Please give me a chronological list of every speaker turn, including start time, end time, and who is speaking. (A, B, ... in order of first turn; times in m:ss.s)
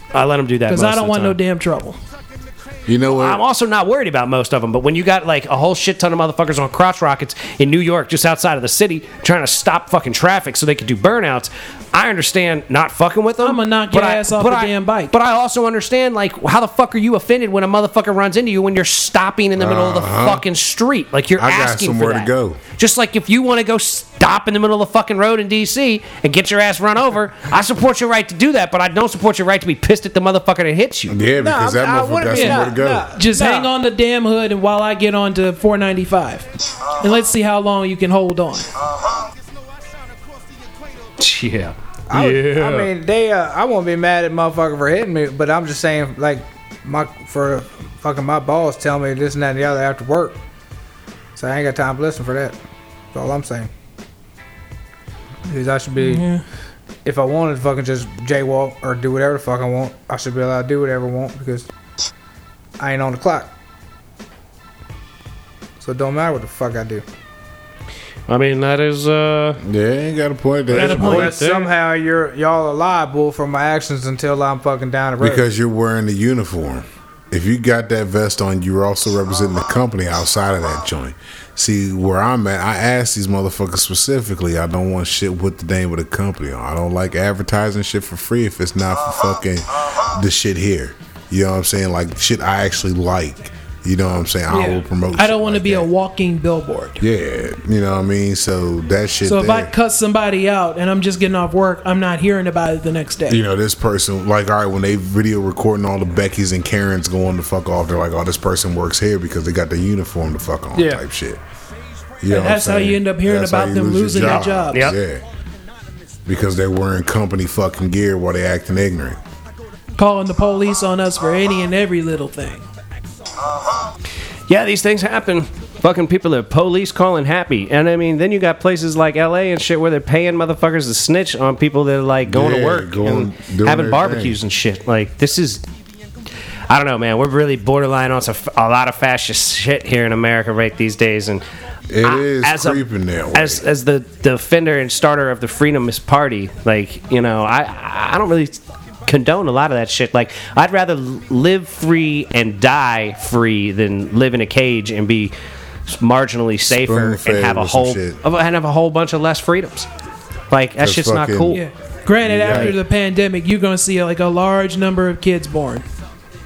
0:00.1-0:01.4 A
0:00.7-0:02.0 B
0:02.9-0:03.4 C
0:03.0-0:31.2 A
0:13.4-0:15.1 B
0:19.6-0:20.4 C
0:21.4-0:22.6 C
0:31.1-0:33.1 C
0:31.4-0:33.7 D
0:32.3-0:38.7 B
0:41.2-0:42.9 A
0:42.1-0:50.4 D
0:51.3-0:52.6 D
0:53.1-0:53.7 D
0:55.4-0:56.2 D
0:56.0-0:56.4 B
0:57.0-1:01.7 D
1:02.8-1:03.5 D
1:05.8-1:07.0 D
1:08.3-1:09.6 A
1:09.6-1:11.3 C
1:10.7-1:11.7 A
1:10.7-1:11.4 B
1:10.8-1:15.4 D
1:15.2-1:35.9 C
1:34.5-1:37.0 B
1:37.0-1:39.7 C
1:39.2-1:43.4 B
1:43.3-1:51.4 C
1:50.8-1:51.0 D
1:52.2-1:55.2 C
1:52.3-1:54.9 B
1:54.2-1:55.0 A
1:56.2-1:59.2 C
2:00.0-2:02.7 B
2:04.5-2:15.6 A
2:12.2-2:14.4 C
2:16.7-2:21.4 A
2:21.9-2:23.6 C
2:22.0-2:35.3 A
2:35.9-2:39.9 A
2:36.7-2:38.2 C
2:40.5-2:41.6 A
2:40.8-2:41.6 C
2:41.5-2:45.8 B
2:42.2-2:42.8 C
2:42.5-2:42.8 A